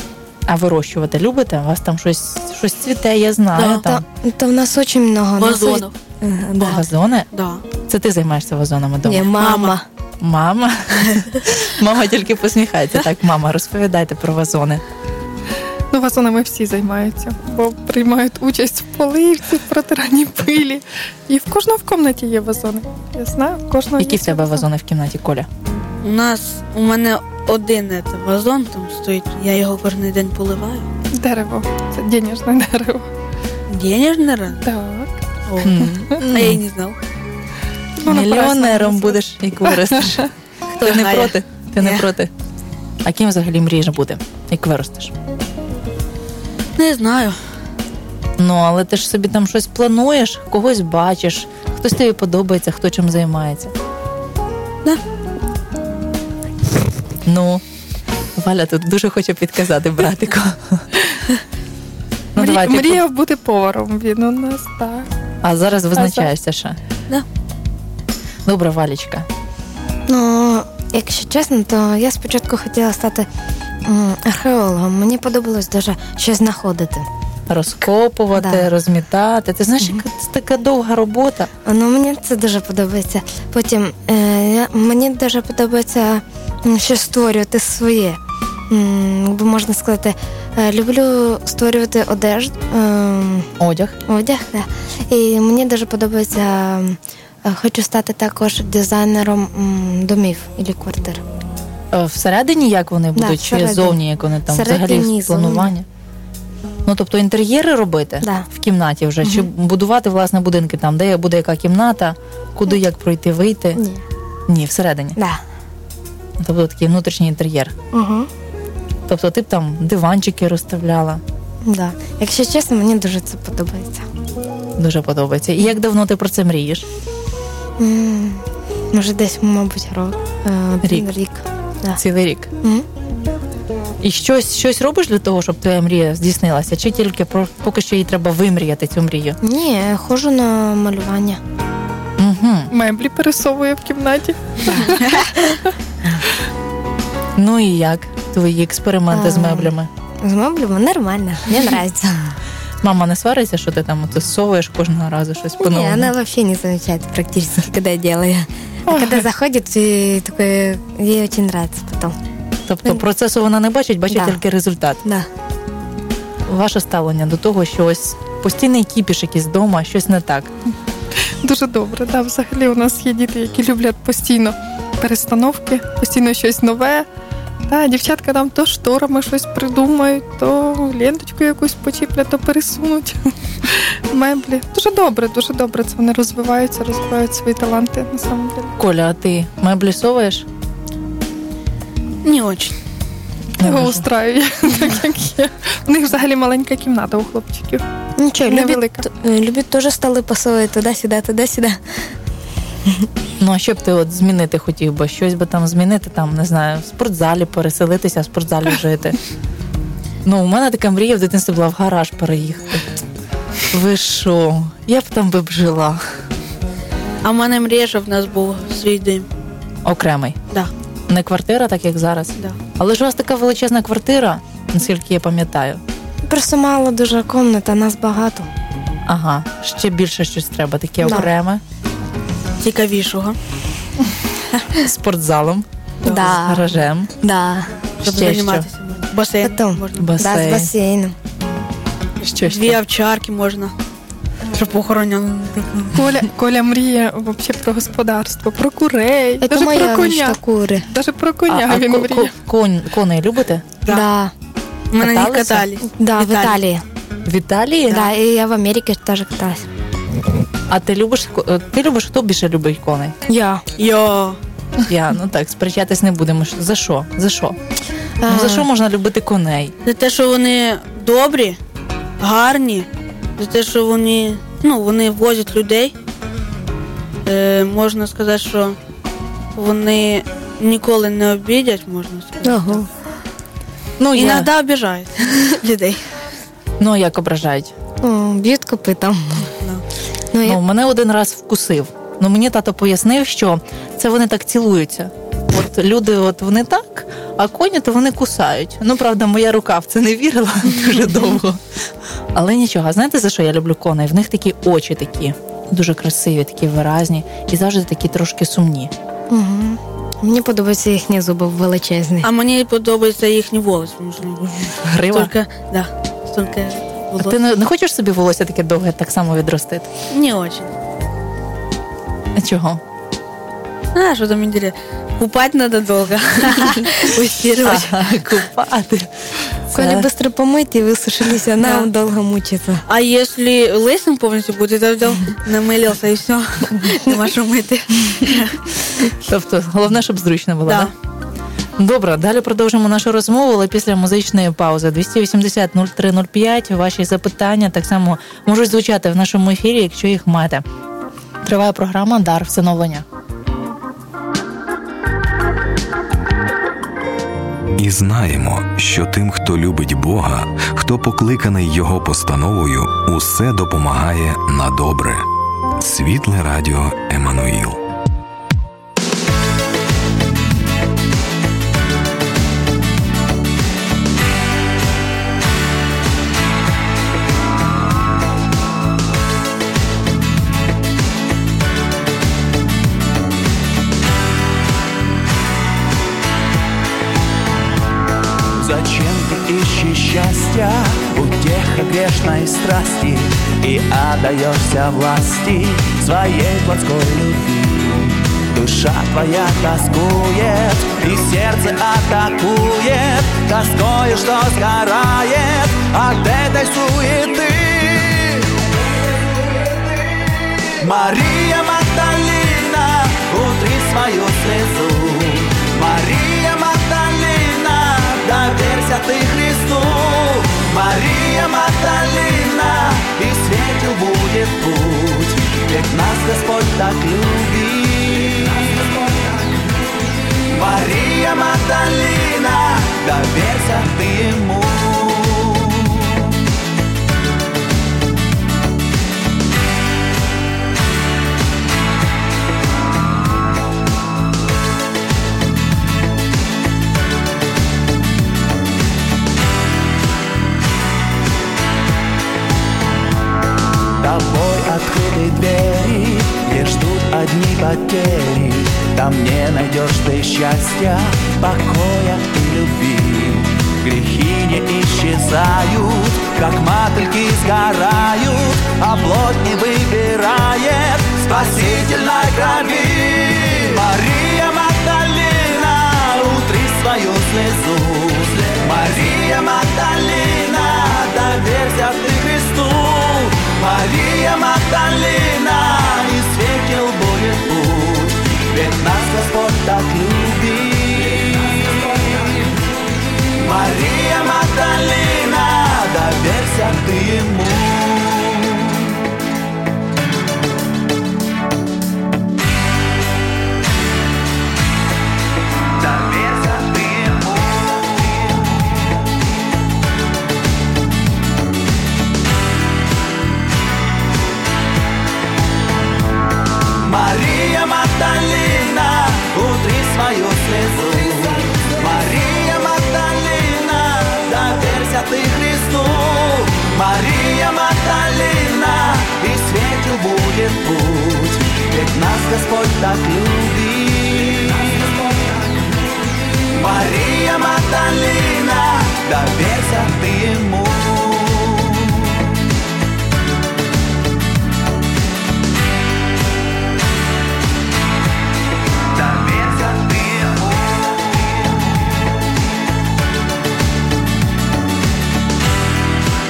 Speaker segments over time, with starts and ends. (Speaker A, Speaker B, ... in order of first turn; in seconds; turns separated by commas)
Speaker A: 0.5-4.0, Speaker B: 3.6-6.8, Speaker C: 5.4-6.0, Speaker C: 6.6-7.6, Speaker A: 6.6-7.3, Speaker A: 7.9-9.3, Speaker B: 9.0-9.9, Speaker C: 9.4-9.8, Speaker A: 10.2-14.8, Speaker D: 15.9-24.7, Speaker A: 24.0-25.5, Speaker C: 26.0-30.9, Speaker D: 31.1-33.1, Speaker C: 33.7-34.7, Speaker D: 34.6-35.1, Speaker C: 35.5-37.0, Speaker A: 35.6-36.6, Speaker D: 38.0-40.2, Speaker A: 38.0-42.3, Speaker C: 40.8-42.1, Speaker A: 43.0-45.1, Speaker C: 46.8-47.4, Speaker A: 48.4-53.7, Speaker A: 57.3-57.6, Speaker A: 58.4-60.9, Speaker A: 62.4-63.0, Speaker D: 62.4-65.1, Speaker A: 65.4-66.8, Speaker D: 66.0-66.3, Speaker A: 68.5-69.3, Speaker B: 70.1-73.3, Speaker B: 73.8-77.1, Speaker A: 77.5-81.5, Speaker B: 78.3-78.7, Speaker B: 81.7-93.5, Speaker A: 93.6-94.0, Speaker B: 94.1-101.2, Speaker A: 101.9-105.9, Speaker B: 103.2-105.7, Speaker A: 106.9-113.8, Speaker B: 108.2-108.5, Speaker B: 109.2-109.5, Speaker B: 113.8-114.0, Speaker A: 114.5-115.2, Speaker B: 115.2-115.4, Speaker A: 116.4-117.7, Speaker B: 117.9-118.3, Speaker A: 119.1-121.2, Speaker B: 121.7-124.1, Speaker A: 124.8-126.9, Speaker B: 127.8-132.0, Speaker A: 130.8-131.1, Speaker A: 132.0-132.5, Speaker A: 134.0-139.4, Speaker B: 139.4-141.4, Speaker A: 142.2-142.7, Speaker D: 142.7-145.4, Speaker A: 147.4-149.9, Speaker B: 149.1-152.4, Speaker A: 152.8-156.1, Speaker B: 155.6-162.2, Speaker A: 162.7-165.0, Speaker B: 164.1-164.4, Speaker B: 165.0-165.3, Speaker A: 166.5-170.5, Speaker D: 171.4-177.1, Speaker D: 177.7-188.7, Speaker A: 188.8-190.4, Speaker C: 192.2-192.8, Speaker A: 193.6-194.0, Speaker D: 193.6-197.8, Speaker B: 198.2-201.8, Speaker D: 198.5-199.1, Speaker A: 203.4-209.2, Speaker A: 210.2-212.8, Speaker A: 213.7-216.0, Speaker C: 217.2-219.3, Speaker A: 219.8-220.4, Speaker A: 221.1-225.8, Speaker B: 226.3-228.5, Speaker A: 229.1-231.6, Speaker B: 231.0-231.3, Speaker C: 232.6-233.4, Speaker A: 234.8-237.1, Speaker C: 236.0-236.4, Speaker B: 236.0-237.8, Speaker A: 238.0-238.7, Speaker C: 238.0-240.2, Speaker B: 239.4-241.2, Speaker A: 240.0-240.7, Speaker A: 242.2-242.8, Speaker C: 242.4-243.7, Speaker C: 244.5-246.0, Speaker D: 245.9-250.4, Speaker B: 249.4-250.9, Speaker D: 250.9-252.3, Speaker A: 251.5-253.7, Speaker B: 253.9-254.3, Speaker C: 254.9-256.6, Speaker A: 255.0-255.7, Speaker B: 255.9-256.8, Speaker A: 257.3-258.1, Speaker B: 257.9-259.7, Speaker A: 260.7-263.1, Speaker B: 263.3-263.6, Speaker C: 263.8-264.4, Speaker A: 264.9-267.6, Speaker B: 268.2-268.7, Speaker A: 268.3-269.7, Speaker C: 269.9-271.6, Speaker C: 272.2-275.9, Speaker C: 277.3-278.8, Speaker C: 279.6-282.8, Speaker B: 282.4-282.9, Speaker A: 284.0-284.5, Speaker C: 284.1-286.0, Speaker A: 286.8-287.7, Speaker B: 288.0-289.5, Speaker C: 289.5-289.8, Speaker B: 290.3-290.6, Speaker A: 290.4-301.6, Speaker A: 302.3-308.9, Speaker B: 309.3-312.3, Speaker C: 312.2-317.4, Speaker A: 314.9-315.3, Speaker A: 317.2-319.9, Speaker C: 320.1-320.7, Speaker A: 322.4-322.8, Speaker C: 323.9-328.1, Speaker A: 327.6-329.1, Speaker A: 329.7-330.1, Speaker B: 329.7-332.8, Speaker C: 331.6-331.9, Speaker C: 332.9-338.6, Speaker A: 339.2-340.9, Speaker C: 340.7-340.9, Speaker A: 341.8-350.6, Speaker A: 351.4-353.1, Speaker E: 357.8-367.8, Speaker F: 388.6-408.5, Speaker F: 410.8-428.8, Speaker F: 430.5-436.2, Speaker F: 454.0-492.4, Speaker F: 493.4-498.8, Speaker F: 505.8-508.4, Speaker F: 516.8-534.9, Speaker F: 536.5-542.2, Speaker F: 549.0-551.3